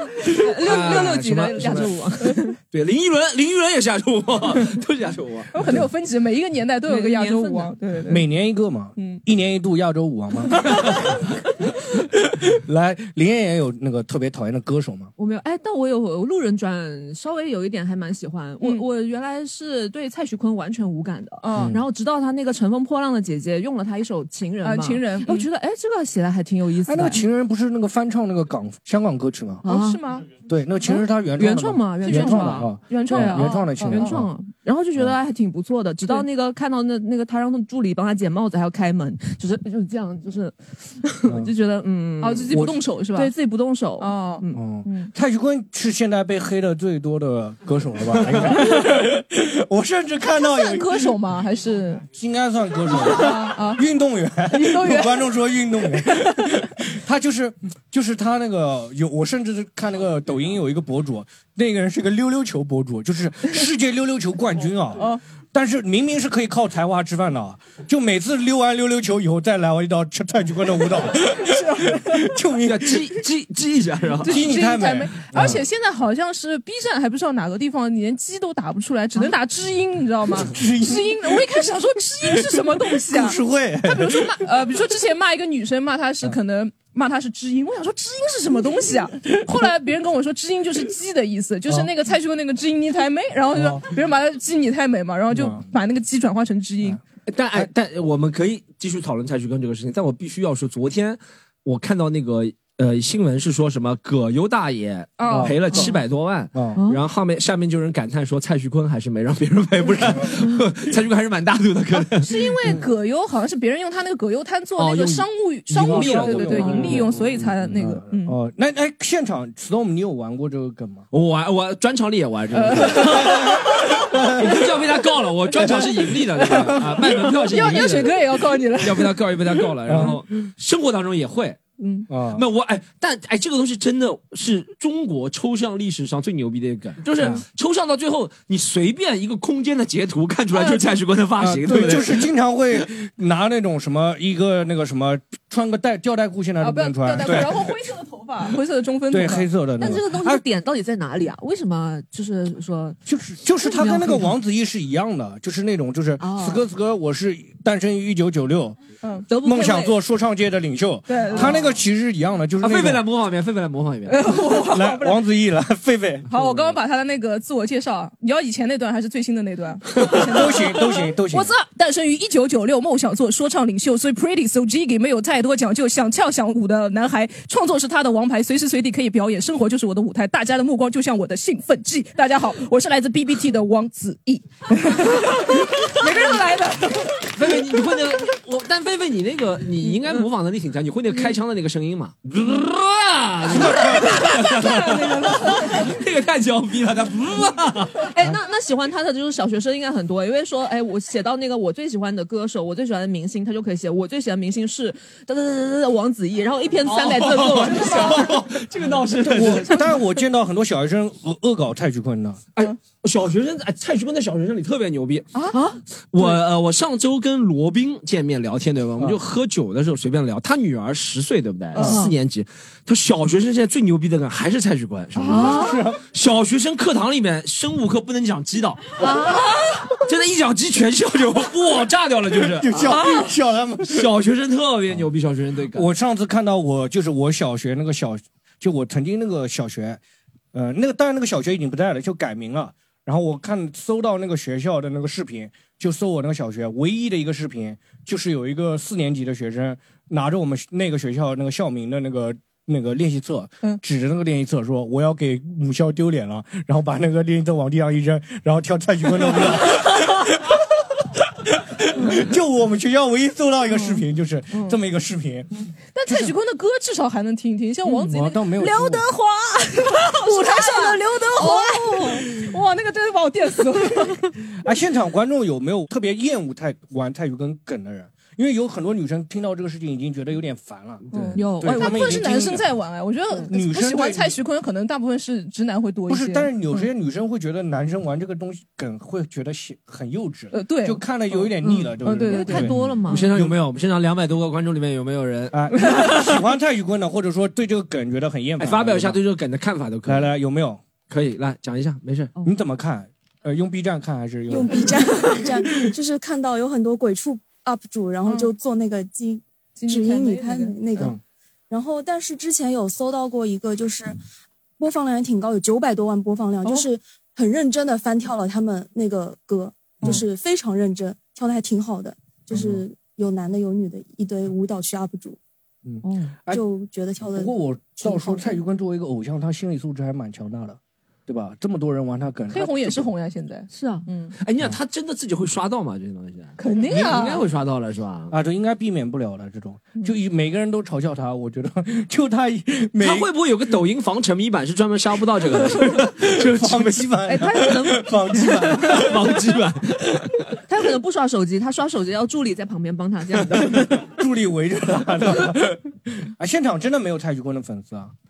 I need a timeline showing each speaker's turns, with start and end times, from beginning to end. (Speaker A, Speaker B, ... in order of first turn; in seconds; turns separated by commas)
Speaker A: 0.3-2.6, Speaker B: 0.6-1.9, Speaker C: 0.6-1.7, Speaker B: 2.7-5.5, Speaker C: 5.5-8.2, Speaker A: 6.8-8.2, Speaker D: 8.1-10.7, Speaker C: 9.0-9.2, Speaker D: 12.2-15.1, Speaker A: 15.2-27.2, Speaker C: 18.6-18.9, Speaker C: 21.4-21.8, Speaker D: 21.6-21.8, Speaker C: 24.6-25.5, Speaker D: 26.9-29.6, Speaker A: 29.6-30.1, Speaker C: 29.6-30.3, Speaker D: 30.5-34.3, Speaker A: 30.9-45.1, Speaker C: 32.0-34.2, Speaker D: 41.3-41.5, Speaker C: 42.2-43.3, Speaker D: 42.5-42.8, Speaker C: 44.0-45.1, Speaker D: 44.5-51.2, Speaker C: 50.3-52.0, Speaker D: 52.1-73.2, Speaker C: 52.9-53.8, Speaker C: 54.5-56.5, Speaker C: 71.3-72.3, Speaker B: 72.6-74.4, Speaker D: 74.2-75.6, Speaker C: 74.2-97.0, Speaker D: 80.4-81.5, Speaker D: 83.0-84.4, Speaker D: 93.5-93.8, Speaker D: 95.3-95.6, Speaker B: 97.3-112.3, Speaker C: 105.2-105.9, Speaker D: 105.3-105.6, Speaker D: 106.5-106.8, Speaker A: 106.8-107.0, Speaker C: 112.1-118.4, Speaker B: 114.8-117.0, Speaker D: 115.7-121.1, Speaker B: 121.1-128.2, Speaker C: 122.6-123.8, Speaker D: 125.6-125.9, Speaker C: 125.7-130.1, Speaker B: 128.8-131.6, Speaker D: 129.9-130.2, Speaker C: 131.8-132.1, Speaker D: 132.1-132.5, Speaker B: 132.3-142.3, Speaker C: 140.5-140.9, Speaker D: 141.4-147.6, Speaker C: 146.6-149.5, Speaker D: 149.1-150.4, Speaker A: 149.8-153.0, Speaker D: 153.1-158.8, Speaker A: 153.6-154.3, Speaker A: 156.2-156.6, Speaker C: 159.0-159.3, Speaker A: 159.3-160.0, Speaker D: 159.4-163.0, Speaker C: 161.1-161.6, Speaker A: 161.3-161.7, Speaker B: 162.6-164.3, Speaker C: 164.1-165.2, Speaker D: 164.6-166.4, Speaker C: 166.3-187.3, Speaker D: 170.1-171.5, Speaker B: 187.3-198.1, Speaker D: 193.5-194.2, Speaker C: 193.8-195.9, Speaker A: 198.1-208.3, Speaker B: 206.8-210.0, Speaker D: 209.3-212.4, Speaker B: 212.6-215.3, Speaker A: 215.5-215.8, Speaker B: 216.1-229.0, Speaker C: 221.8-222.0, Speaker A: 221.8-222.1, Speaker A: 225.2-225.8, Speaker D: 225.3-226.0, Speaker A: 229.0-230.0, Speaker B: 230.0-233.0, Speaker D: 232.4-234.1, Speaker B: 233.9-235.9, Speaker D: 235.7-240.0, Speaker D: 240.5-260.6, Speaker D: 261.4-266.3, Speaker C: 265.9-274.4, Speaker D: 267.9-269.1, Speaker A: 270.3-272.3, Speaker D: 274.6-282.7, Speaker B: 281.1-281.4, Speaker C: 281.1-286.9, Speaker A: 281.4-282.2, Speaker D: 283.5-284.4, Speaker D: 286.1-293.6, Speaker C: 290.5-291.5, Speaker A: 291.6-293.3, Speaker C: 292.0-292.7, Speaker B: 293.1-295.6, Speaker D: 295.5-299.2, Speaker C: 295.8-296.3, Speaker B: 298.6-300.3, Speaker D: 300.1-300.8, Speaker B: 301.1-302.3, Speaker D: 302.4-305.3, Speaker E: 304.5-311.2, Speaker C: 308.3-308.5, Speaker C: 309.8-311.1, Speaker E: 311.7-314.2, Speaker E: 314.8-325.4, Speaker D: 322.5-322.8, Speaker D: 325.9-326.6, Speaker A: 326.0-326.4, Speaker E: 326.5-328.6, Speaker D: 327.3-333.0, Speaker C: 332.5-334.4, Speaker A: 333.7-334.1, Speaker B: 334.4-338.3, Speaker C: 336.6-337.4, Speaker D: 336.9-337.2, Speaker D: 338.3-343.3, Speaker B: 343.0-347.1, Speaker D: 346.2-349.2, Speaker A: 347.3-348.8, Speaker B: 348.8-350.4, Speaker A: 350.7-353.9, Speaker D: 353.9-358.1